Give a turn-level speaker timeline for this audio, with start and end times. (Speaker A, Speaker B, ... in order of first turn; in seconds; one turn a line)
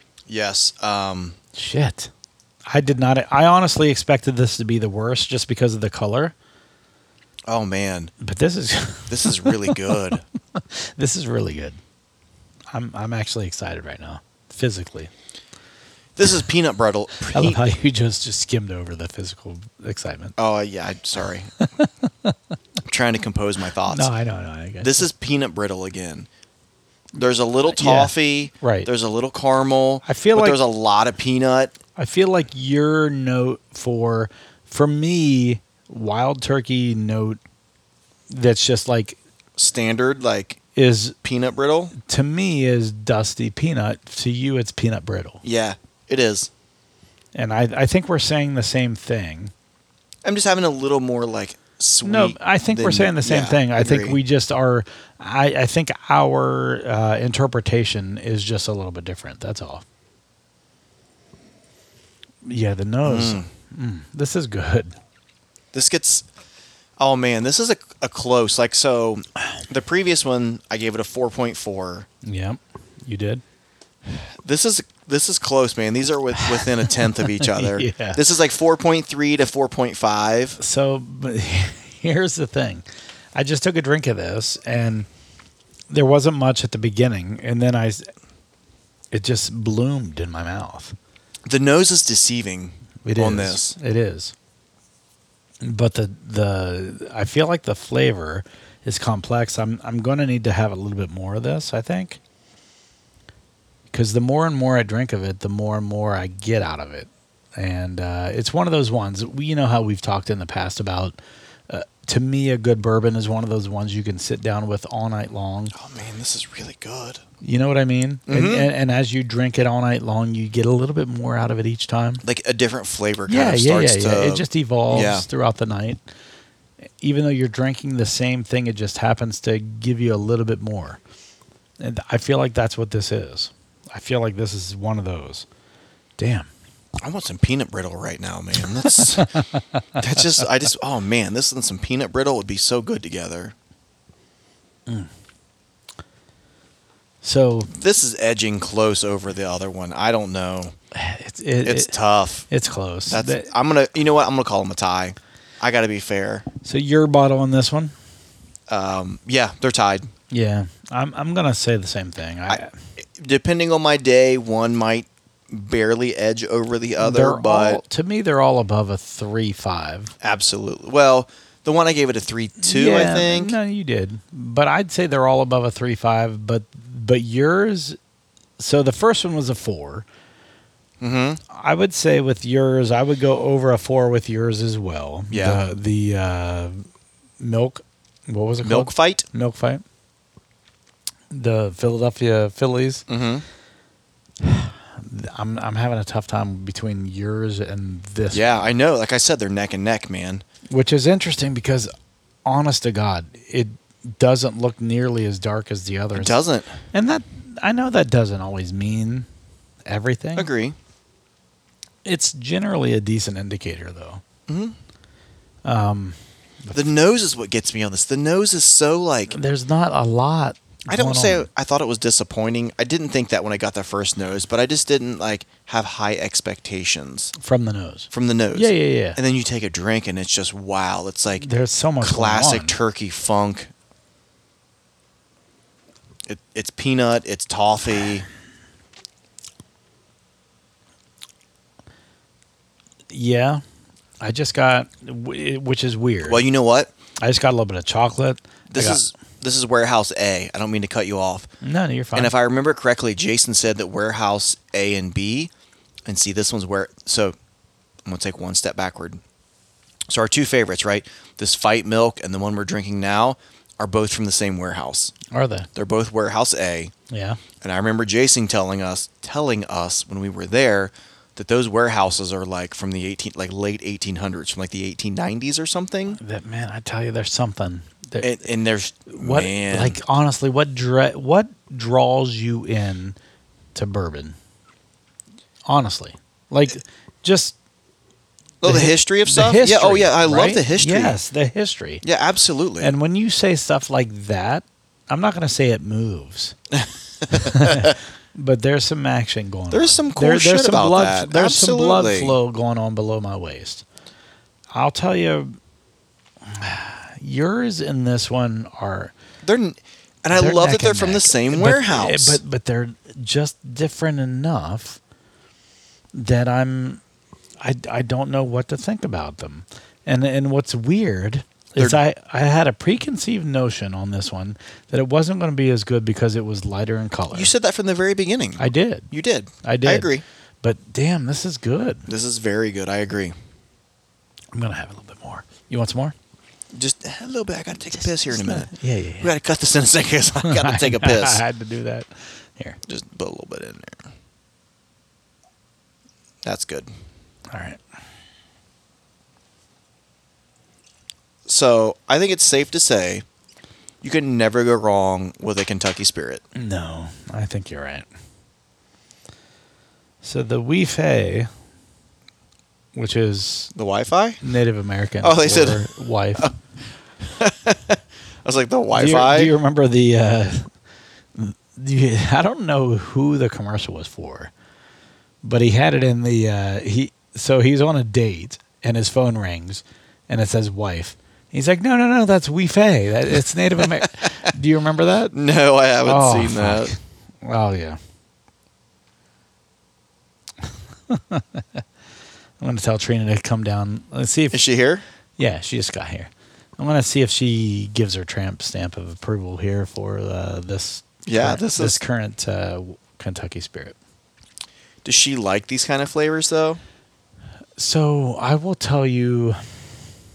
Speaker A: 0.3-1.4
Speaker B: 1.5-2.1
Speaker B: 2.7-6.3
Speaker A: 7.5-8.1
Speaker B: 8.2-11.8
Speaker A: 9.1-10.2
Speaker B: 12.7-15.1
Speaker A: 16.1-17.6
Speaker B: 17.3-20.4
Speaker A: 20.4-21.6
Speaker B: 21.6-22.3
Speaker A: 22.9-24.1
Speaker B: 23.9-25.1
Speaker A: 24.8-26.3
Speaker A: 27.1-31.7
Speaker B: 27.7-28.9
Speaker B: 30.0-30.6
Speaker B: 32.0-37.4
Speaker B: 38.3-39.2
Speaker A: 39.6-40.6
Speaker B: 40.8-41.1
Speaker A: 41.2-41.9
Speaker B: 41.9-45.4
Speaker A: 45.4-46.5
Speaker B: 47.3-49.5
Speaker A: 50.2-54.2
Speaker B: 52.0-59.8
Speaker B: 62.4-64.9
Speaker A: 63.0-63.5
Speaker A: 65.7-66.2
Speaker A: 67.0-72.1
Speaker B: 72.2-73.4
Speaker A: 74.1-80.6
Speaker B: 76.5-78.2
Speaker B: 80.6-85.1
Speaker B: 85.9-88.1
Speaker B: 89.1-91.0
Speaker A: 91.5-93.8
Speaker B: 93.0-94.3
Speaker B: 95.6-102.2
Speaker B: 103.9-111.2
Speaker B: 111.7-115.7
Speaker A: 115.7-117.2
Speaker B: 117.4-122.2
Speaker A: 118.3-118.7
Speaker A: 122.2-125.2
Speaker B: 123.3-126.0
Speaker B: 127.0-131.0
Speaker B: 131.8-135.4
Speaker B: 136.2-136.5
Speaker A: 137.0-139.3
Speaker B: 139.0-139.8
Speaker A: 140.0-143.5
Speaker B: 147.2-147.7
Speaker A: 147.7-150.7
Speaker B: 150.9-152.0
Speaker A: 151.6-152.5
Speaker B: 152.5-153.5
Speaker A: 153.1-156.4
Speaker B: 156.6-157.9
Speaker A: 158.7-160.1
Speaker B: 160.3-162.7
Speaker A: 162.5-167.8
Speaker B: 167.0-170.1
Speaker A: 170.2-173.6
Speaker B: 172.6-178.0
Speaker B: 178.6-180.1
Speaker A: 181.0-181.4
Speaker B: 181.5-186.8
Speaker A: 185.3-185.6
Speaker B: 187.4-189.8
Speaker A: 188.6-189.2
Speaker B: 191.3-193.0
Speaker A: 193.1-193.4
Speaker B: 194.4-198.6
Speaker A: 198.3-200.4
Speaker B: 200.7-201.9
Speaker B: 202.4-206.4
Speaker A: 206.1-206.7
Speaker B: 206.9-209.3
Speaker B: 209.8-210.5
Speaker A: 210.3-210.8
Speaker B: 212.0-214.2
Speaker A: 214.5-214.8
Speaker B: 215.6-216.8
Speaker A: 216.7-219.4
Speaker B: 219.3-221.5
Speaker A: 220.9-227.3
Speaker B: 227.3-229.2
Speaker A: 228.1-231.5
Speaker B: 231.4-232.8
Speaker A: 232.0-233.7
Speaker A: 236.3-238.2
Speaker B: 243.1-243.6
Speaker B: 244.2-246.4
Speaker A: 246.2-246.9
Speaker B: 247.2-249.0
Speaker A: 248.7-251.5
Speaker B: 251.6-252.3
Speaker A: 252.1-255.5
Speaker A: 256.1-257.4
Speaker A: 258.1-259.2
Speaker A: 260.1-265.1
Speaker B: 265.3-265.7
Speaker A: 265.7-266.9
Speaker B: 267.1-267.4
Speaker A: 267.6-276.2
Speaker B: 276.2-278.4
Speaker A: 278.2-280.0
Speaker B: 279.1-283.2
Speaker B: 283.7-284.4
Speaker B: 285.7-287.6
Speaker A: 288.6-291.2
Speaker B: 288.6-292.0
Speaker A: 292.0-292.9
Speaker B: 292.8-296.6
Speaker A: 296.7-297.9
Speaker B: 297.3-303.8
Speaker A: 299.7-302.4
Speaker B: 304.7-305.6
Speaker B: 306.5-309.1
Speaker A: 309.4-312.4
Speaker B: 310.3-315.0
Speaker B: 316.1-317.0
Speaker B: 317.6-327.5
Speaker A: 327.3-330.2
Speaker B: 328.6-329.1
Speaker B: 329.6-332.1
Speaker A: 332.1-333.3
Speaker B: 334.5-336.1
Speaker A: 336.7-341.4
Speaker B: 338.3-339.3
Speaker B: 340.4-342.8
Speaker A: 342.9-344.1
Speaker A: 346.4-346.9
Speaker B: 347.5-347.8
Speaker A: 351.4-353.2
Speaker A: 354.0-356.4
Speaker B: 356.5-358.1
Speaker B: 360.2-361.5
Speaker B: 362.9-363.7
Speaker A: 363.7-364.4
Speaker B: 364.4-366.5
Speaker A: 365.2-366.5
Speaker A: 367.2-369.5
Speaker B: 368.9-370.7
Speaker B: 371.3-374.5
Speaker B: 375.4-385.3
Speaker A: 385.3-386.9
Speaker B: 386.0-388.0
Speaker B: 391.1-391.8
Speaker B: 392.6-394.6
Speaker A: 394.5-395.0
Speaker B: 395.4-403.9
Speaker A: 401.2-402.0
Speaker A: 405.0-406.8
Speaker B: 407.8-409.9